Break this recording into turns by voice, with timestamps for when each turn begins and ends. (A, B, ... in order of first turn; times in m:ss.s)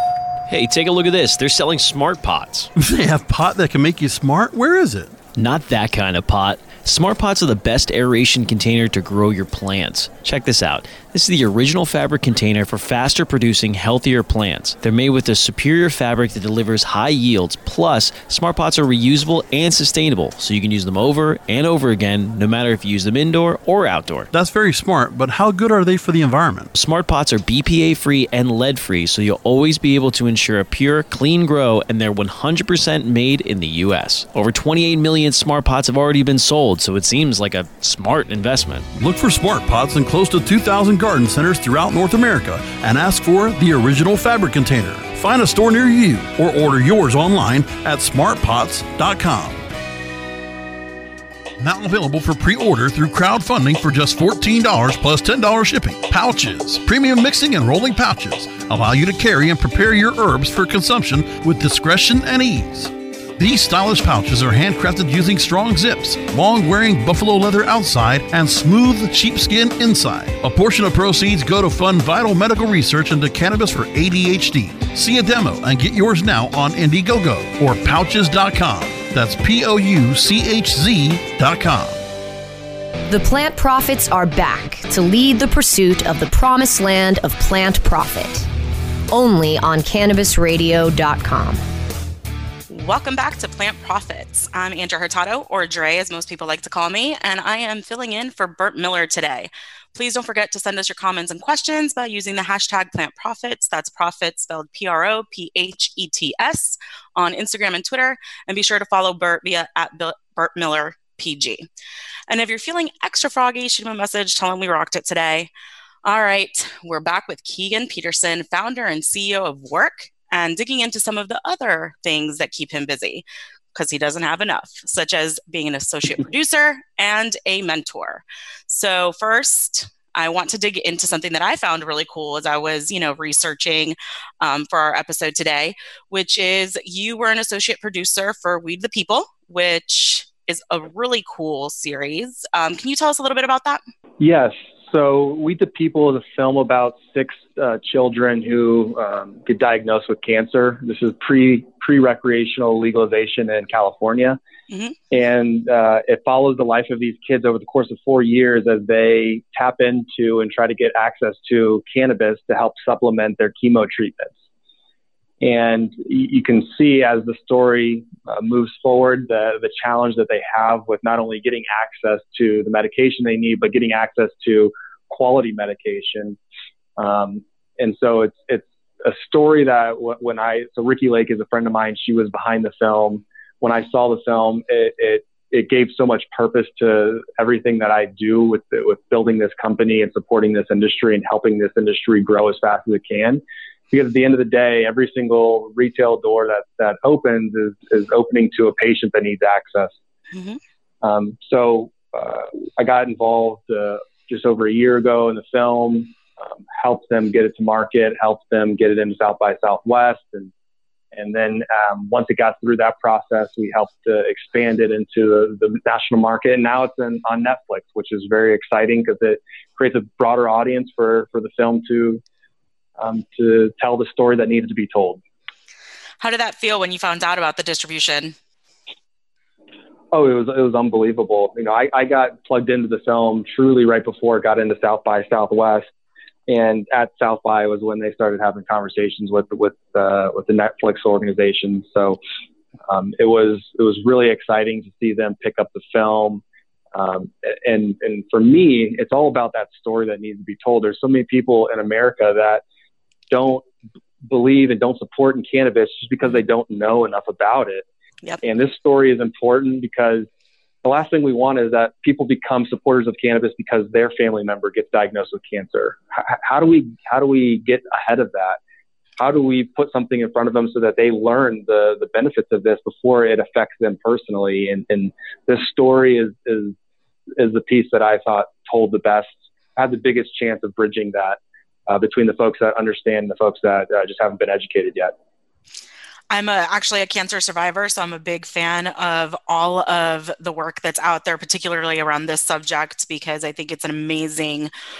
0:00.5-0:02.7 A
0:02.8-0:05.2 B
0:05.4-0:24.3 A
0:24.3-0:26.7 B
0:26.7-0:38.9 A
0:38.9-0:49.6 B
0:51.6-1:22.0 B
1:23.1-1:28.5 C
1:29.1-1:31.6 C
1:32.7-1:51.7 D
1:52.3-1:55.5 D
1:56.0-2:23.8 D
2:24.2-2:34.4 E
2:34.7-2:35.0 D
2:35.1-2:44.3 E
2:45.4-2:56.4 E
2:57.0-3:20.0 E
3:20.3-3:20.6 D
3:21.0-3:30.5 E
3:31.1-3:42.2 E
3:43.0-3:45.2 E
3:46.2-3:48.4 D
3:50.1-3:55.9 E
3:56.5-4:02.2 E
4:02.9-4:06.4 E
4:06.9-4:12.6 E
4:13.3-4:13.6 E
4:14.3-4:17.8 E
4:18.4-4:20.3 E
4:20.8-4:28.6 E
4:29.2-4:36.8 E
4:37.4-4:45.1 E
4:46.3-4:54.7 D